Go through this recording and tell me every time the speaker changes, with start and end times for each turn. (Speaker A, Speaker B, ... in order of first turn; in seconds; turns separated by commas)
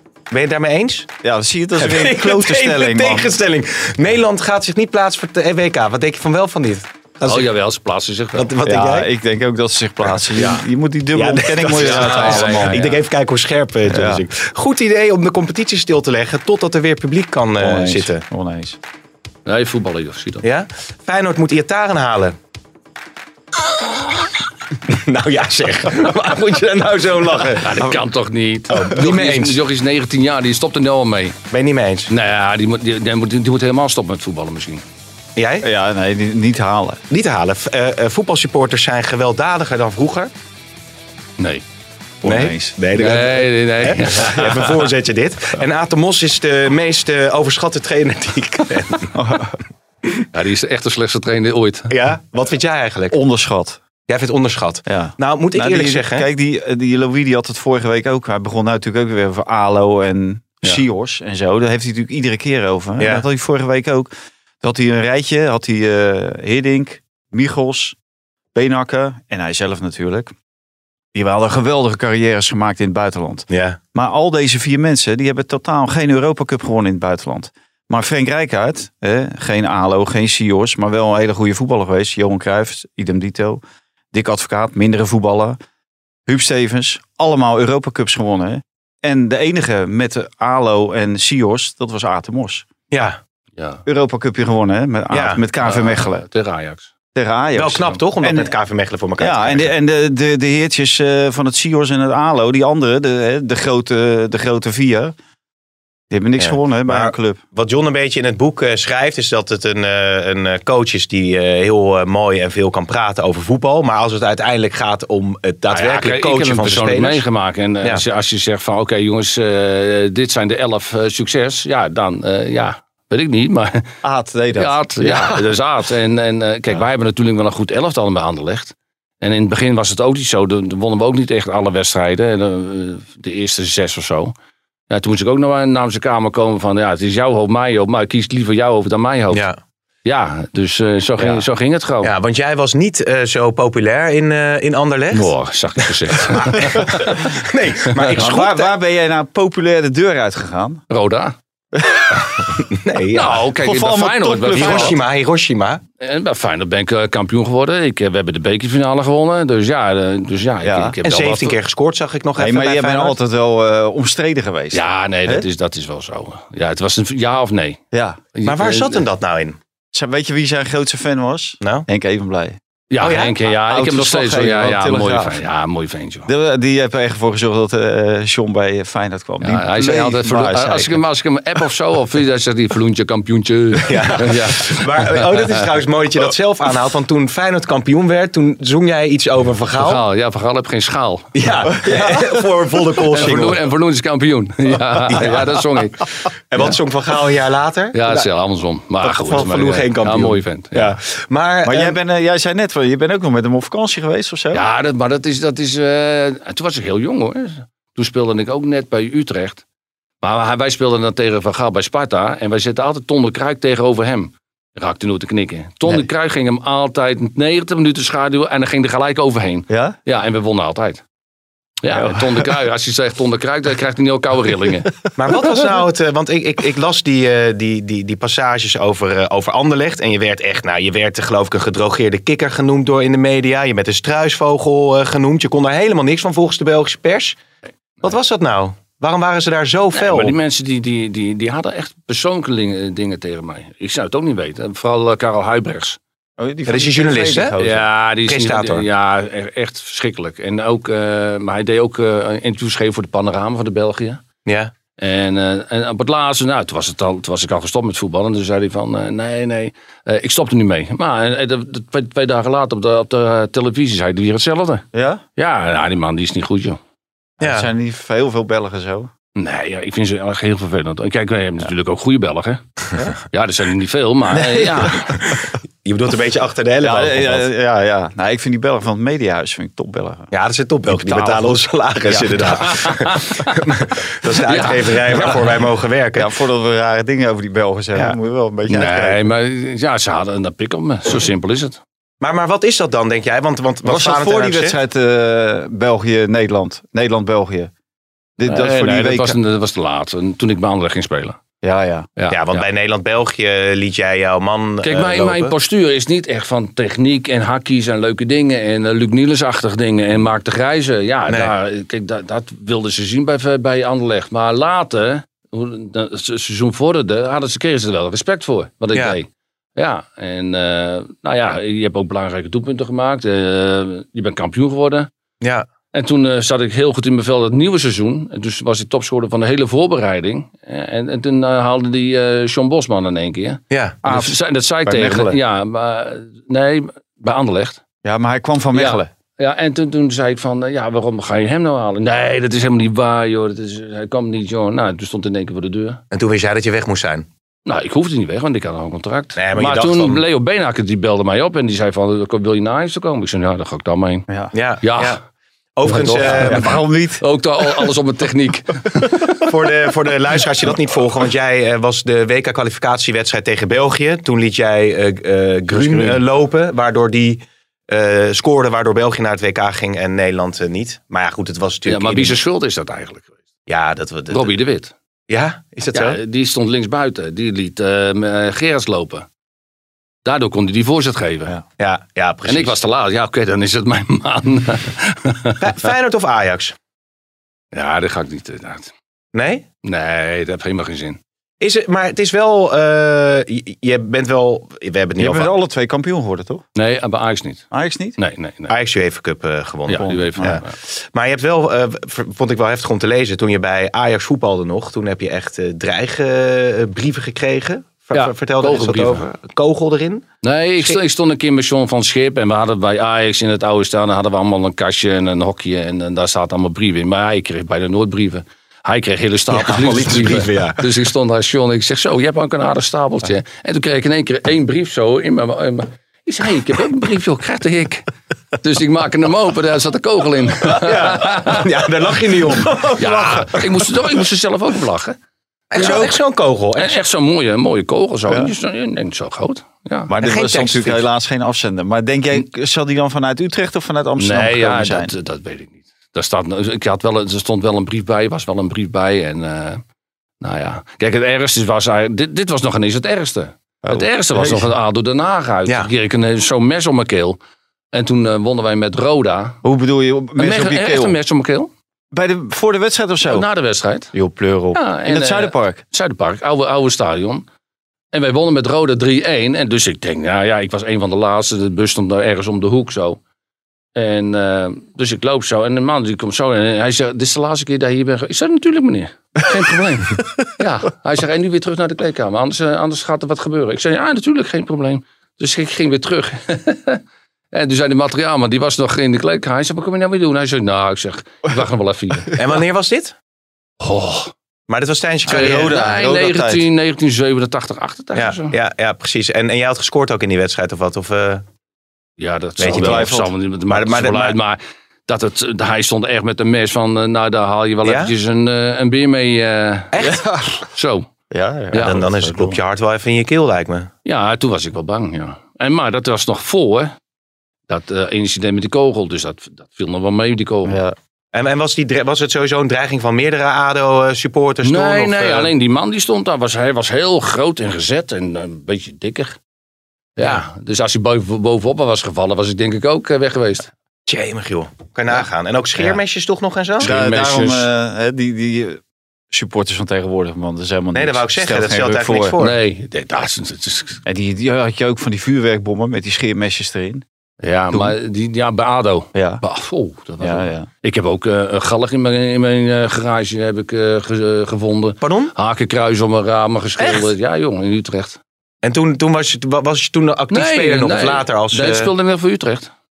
Speaker A: 0.3-1.1, Speaker B: 1.2-3.3, Speaker A: 1.8-7.5, Speaker C: 7.2-8.5, Speaker A: 8.3-9.1, Speaker B: 8.6-12.8, Speaker C: 10.4-10.6, Speaker A: 11.1-18.2, Speaker C: 11.8-13.0, Speaker B: 13.9-14.2, Speaker B: 17.6-18.8, Speaker C: 19.4-20.4, Speaker A: 20.4-22.4, Speaker A: 24.9-27.8, Speaker C: 27.6-31.4, Speaker A: 28.7-29.6, Speaker A: 31.5-32.1, Speaker C: 32.1-34.8, Speaker A: 35.4-35.6, Speaker B: 35.6-37.0, Speaker A: 37.1-40.3, Speaker C: 41.4-41.6, Speaker B: 42.2-42.8, Speaker A: 42.2-49.1, Speaker C: 42.9-44.8, Speaker B: 49.1-49.6, Speaker C: 50.3-51.9, Speaker A: 51.9-53.2, Speaker B: 53.1-53.8, Speaker A: 54.1-56.3, Speaker B: 54.9-68.0, Speaker A: 63.0-63.2, Speaker B: 68.5-70.3, Speaker B: 71.1-83.6, Speaker A: 73.5-73.8, Speaker B: 84.1-85.6, Speaker B: 86.3-92.6, Speaker A: 92.9-93.2, Speaker C: 93.5-93.8, Speaker B: 93.8-96.2, Speaker A: 95.1-95.4, Speaker C: 95.6-96.9, Speaker B: 97.1-98.5, Speaker A: 97.5-99.7, Speaker B: 99.2-105.1, Speaker B: 106.1-107.4, Speaker A: 106.4-117.2, Speaker C: 115.7-123.9, Speaker B: 124.0-125.5, Speaker C: 124.5-134.3, Speaker C: 134.9-139.4, Speaker A: 139.3-139.6, Speaker C: 140.0-142.1, Speaker A: 141.2-141.4, Speaker A: 142.0-145.3, Speaker C: 145.1-147.3, Speaker A: 146.1-148.7, Speaker B: 148.1-150.8, Speaker C: 150.9-151.3, Speaker B: 151.8-152.4, Speaker A: 152.7-153.4, Speaker C: 153.1-155.0, Speaker B: 153.6-154.9, Speaker A: 154.5-155.8, Speaker C: 156.0-161.6, Speaker B: 160.6-160.9, Speaker A: 161.0-163.2, Speaker B: 162.4-165.4, Speaker C: 164.7-167.8, Speaker B: 167.9-168.2, Speaker C: 168.3-169.0, Speaker A: 168.4-169.6, Speaker B: 169.9-172.6, Speaker A: 171.6-171.8, Speaker C: 172.9-176.3, Speaker A: 173.0-173.3, Speaker B: 173.6-175.4, Speaker B: 176.2-181.0, Speaker C: 179.4-185.6, Speaker A: 183.8-190.0, Speaker C: 189.8-191.3, Speaker A: 191.3-193.6, Speaker B: 191.8-192.2, Speaker C: 193.1-196.1, Speaker A: 195.1-195.5, Speaker A: 196.5-198.3, Speaker C: 197.9-201.0, Speaker A: 199.0-202.0, Speaker B: 201.6-204.6, Speaker C: 204.5-209.6, Speaker C: 210.2-221.0, Speaker B: 219.7-220.0, Speaker C: 221.8-224.9, Speaker A: 225.2-237.4, Speaker A: 238.0-240.3, Speaker C: 239.9-246.0, Speaker B: 246.4-247.9, Speaker A: 246.7-247.5, Speaker C: 247.6-254.2, Speaker A: 248.2-248.8, Speaker A: 254.4-254.7, Speaker C: 255.0-264.9, Speaker B: 264.9-265.2, Speaker C: 265.4-266.8, Speaker B: 267.4-269.1, Speaker A: 267.4-267.7, Speaker C: 269.4-272.6, Speaker C: 273.3-275.2, Speaker B: 274.3-274.9, Speaker A: 275.2-277.5, Speaker B: 276.8-280.3, Speaker A: 280.3-286.3, Speaker B: 280.9-282.7, Speaker C: 282.7-283.5, Speaker C: 284.4-285.5, Speaker B: 286.1-289.3, Speaker C: 288.7-291.8, Speaker A: 292.2-294.8, Speaker B: 293.8-297.7, Speaker B: 298.4-299.4, Speaker C: 298.4-301.4, Speaker B: 301.6-302.1, Speaker C: 302.2-302.6, Speaker A: 302.3-305.5, Speaker C: 304.8-325.1, Speaker A: 311.3-311.5, Speaker A: 325.4-325.7, Speaker C: 325.9-337.8, Speaker A: 333.7-334.0, Speaker B: 334.0-335.4, Speaker B: 338.0-339.1, Speaker C: 338.7-346.0, Speaker A: 346.1-347.3, Speaker C: 347.6-354.2, Speaker A: 349.4-350.2, Speaker A: 354.5-355.2, Speaker C: 354.8-355.2, Speaker A: 355.8-356.8, Speaker C: 355.9-359.3, Speaker B: 356.1-357.2, Speaker A: 359.4-372.4, Speaker B: 365.7-366.2, Speaker C: 371.9-373.3, Speaker A: 373.7-374.5, Speaker C: 374.3-374.9, Speaker A: 375.3-376.2, Speaker C: 375.9-379.3, Speaker C: 380.2-381.6, Speaker A: 381.8-382.8, Speaker C: 382.4-385.7, Speaker A: 385.6-386.7, Speaker C: 387.7-388.9, Speaker A: 389.3-389.6, Speaker C: 389.8-391.2, Speaker A: 391.6-395.5, Speaker B: 395.2-396.6, Speaker C: 396.7-397.6, Speaker B: 397.7-398.2, Speaker C: 398.2-398.7, Speaker A: 398.7-410.2, Speaker C: 399.9-400.7, Speaker B: 400.0-400.6, Speaker C: 408.1-409.3, Speaker C: 410.4-428.1, Speaker A: 419.5-420.8, Speaker C: 428.6-431.7, Speaker A: 430.8-433.4, Speaker B: 432.9-433.6, Speaker C: 433.0-435.2, Speaker A: 435.7-437.0, Speaker C: 435.7-436.1, Speaker B: 435.7-436.1, Speaker C: 436.8-440.1, Speaker B: 440.1-445.1, Speaker A: 440.2-441.1, Speaker C: 444.2-449.8, Speaker C: 450.4-457.4, Speaker B: 453.8-454.7, Speaker C: 457.9-459.6, Speaker B: 459.6-461.2, Speaker C: 460.4-461.7, Speaker B: 462.1-463.4, Speaker C: 463.2-464.1, Speaker B: 464.1-465.8, Speaker C: 464.7-467.4, Speaker C: 468.1-473.2, Speaker C: 473.9-492.3, Speaker A: 492.3-493.1, Speaker C: 493.8-494.3, Speaker A: 494.7-495.8, Speaker B: 495.3-496.6, Speaker C: 495.3-498.6, Speaker A: 498.1-501.4, Speaker C: 502.2-509.9, Speaker A: 502.6-503.1, Speaker B: 502.6-503.3, Speaker A: 503.7-504.4, Speaker A: 507.8-508.1, Speaker A: 509.9-510.2, Speaker B: 510.0-510.6, Speaker C: 510.7-511.1, Speaker B: 511.3-512.6, Speaker C: 511.7-512.0, Speaker A: 511.8-513.9, Speaker C: 514.0-516.9, Speaker C: 517.7-520.8, Speaker B: 520.6-520.9, Speaker A: 521.3-525.5, Speaker C: 524.6-529.4, Speaker C: 530.2-533.7, Speaker A: 534.1-536.9, Speaker C: 536.8-537.7, Speaker B: 536.8-542.4, Speaker A: 540.9-542.6, Speaker C: 542.4-544.0, Speaker B: 544.0-547.0, Speaker C: 547.4-558.2, Speaker B: 549.1-549.4, Speaker B: 550.2-550.7, Speaker A: 555.0-555.3, Speaker A: 556.8-557.1, Speaker A: 558.6-561.9, Speaker C: 560.3-562.7